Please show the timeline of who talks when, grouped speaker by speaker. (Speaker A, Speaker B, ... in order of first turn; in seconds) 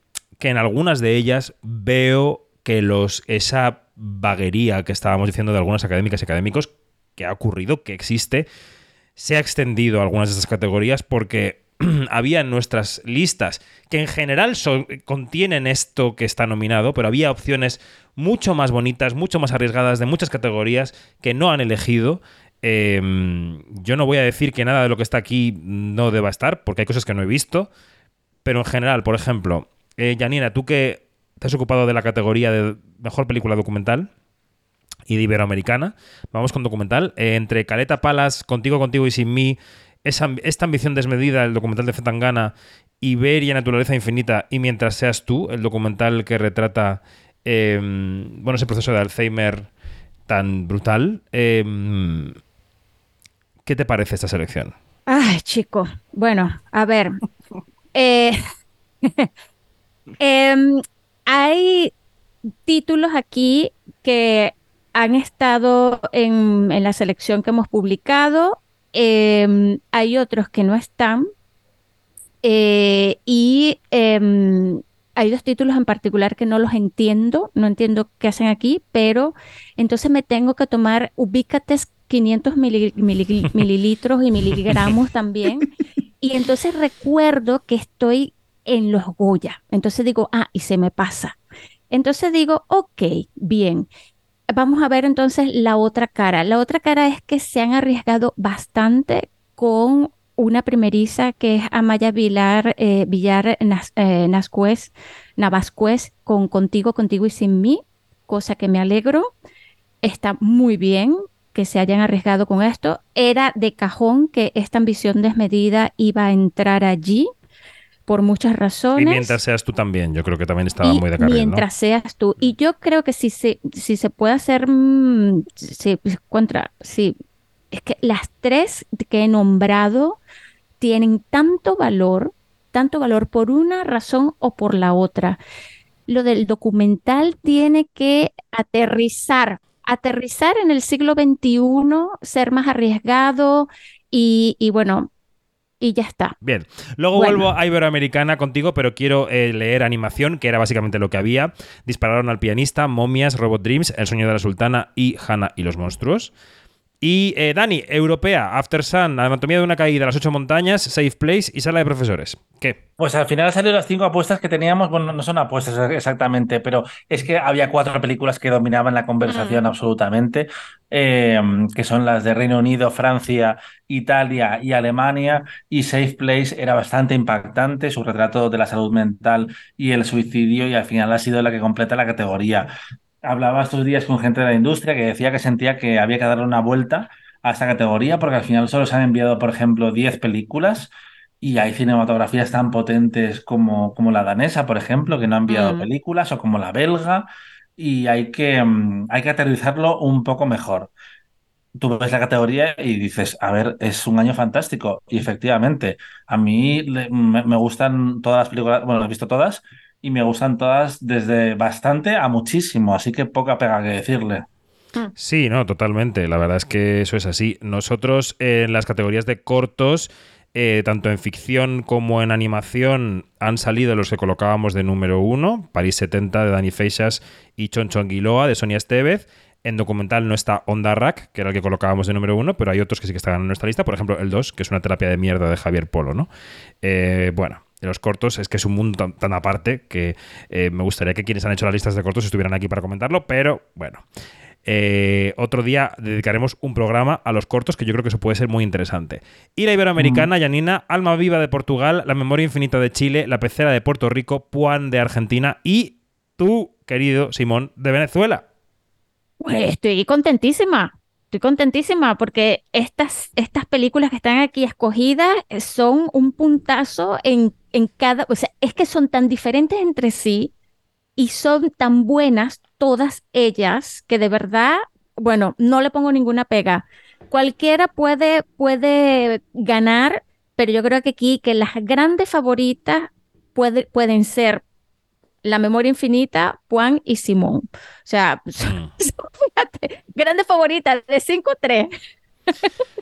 Speaker A: 0.4-8.4, 9.2-27.7, 28.4-34.1, 35.1-49.7, 50.3-52.4, 53.6-54.7, 119.0-121.6, 146.4-156.3, 157.0-162.8, 215.2-236.3, 236.8-244.0, 244.6-258.4, 288.6-288.9
Speaker B: 55.1-57.2, 57.9-58.4, 59.0-59.3, 60.2-61.9, 62.6-71.2, 72.4-91.3, 91.9-93.9, 94.5-109.3, 110.0-117.3, 118.1-119.4, 120.8-127.1, 127.7-130.2, 130.8-135.4, 136.1-145.1, 145.8-146.3, 147.1-147.5, 169.2-169.6, 195.5-195.9, 259.4-270.5, 271.2-284.6, 285.4-291.9
Speaker C: 163.0-182.7, 183.2-200.9, 201.8-214.4, 250.0-250.3